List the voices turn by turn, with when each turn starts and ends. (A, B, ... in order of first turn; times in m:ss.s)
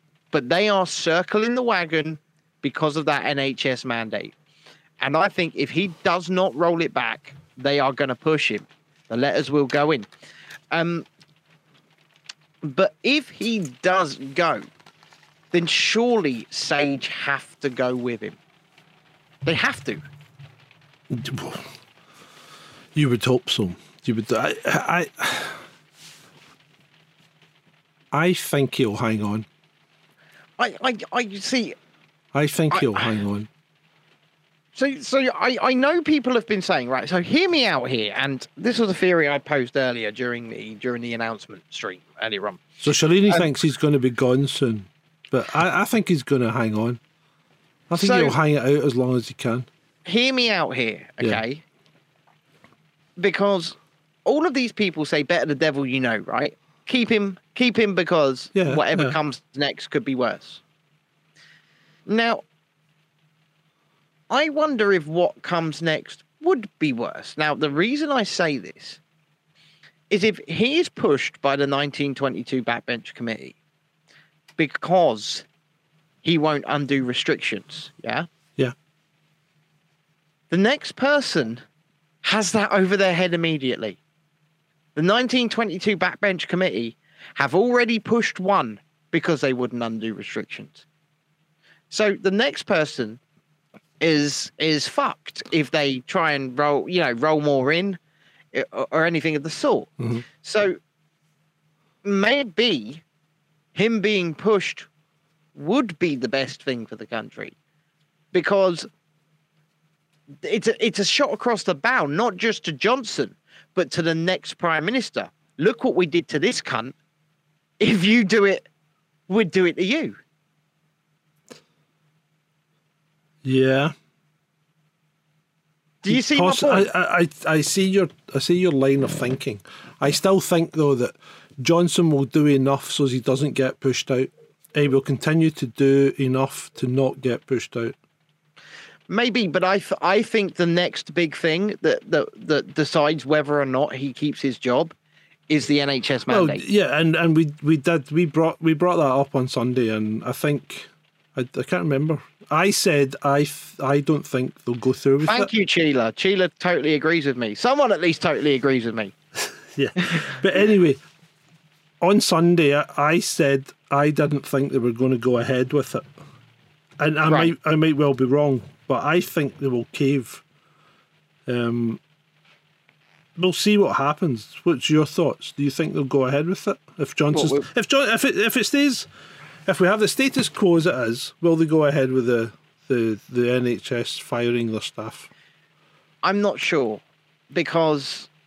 0:00.3-0:04.3 A
0:05.0-0:10.1 A
0:10.7-0:11.1 A
0:12.6-0:14.7 A
0:15.5-0:18.4 A
0:19.4-0:20.0 A
0:21.1-0:21.7 B
0:23.0-0:25.6 B
0:28.1-0:29.5 B
0:30.6-0:31.8 A
0:32.3-0:33.5 B
0:32.7-0:33.1 A
0:34.8-0:42.7 A
0:42.8-0:47.0 B
0:47.9-0:49.7 B
0:47.9-0:48.4 A
0:50.0-0:51.6 A
0:53.2-1:00.6 A
0:58.5-0:59.2 B
1:02.1-1:02.4 A
1:04.3-1:09.0 A
1:10.1-1:13.6 A
1:14.6-1:15.5 A
1:16.2-1:18.3 A
1:20.5-1:21.6 A
1:22.2-1:24.0 A
1:25.0-1:30.8 A
1:31.9-1:33.2 A
1:34.0-1:38.0 A
1:38.5-1:40.8 A
1:42.0-1:43.0 A
1:43.8-1:44.9 A
1:45.6-1:47.6 A
1:48.3-1:48.9 A
1:50.4-1:57.0 A
1:57.8-1:58.7 A
1:59.3-2:00.2 A
2:03.4-2:04.0 B
2:06.0-2:06.9 A
2:06.1-2:18.0 B
2:19.1-2:24.9 A
2:25.5-2:26.6 A
2:26.3-2:35.5 B
2:35.2-2:39.1 A
2:39.7-2:41.0 B
2:40.0-2:40.4 A
2:42.0-2:46.1 B
2:47.0-2:50.4 B
2:47.3-2:47.5 A
2:51.5-2:52.0 B
2:53.4-2:59.1 B
2:57.3-2:57.7 A
2:59.7-3:05.3 B
3:06.2-3:08.3 A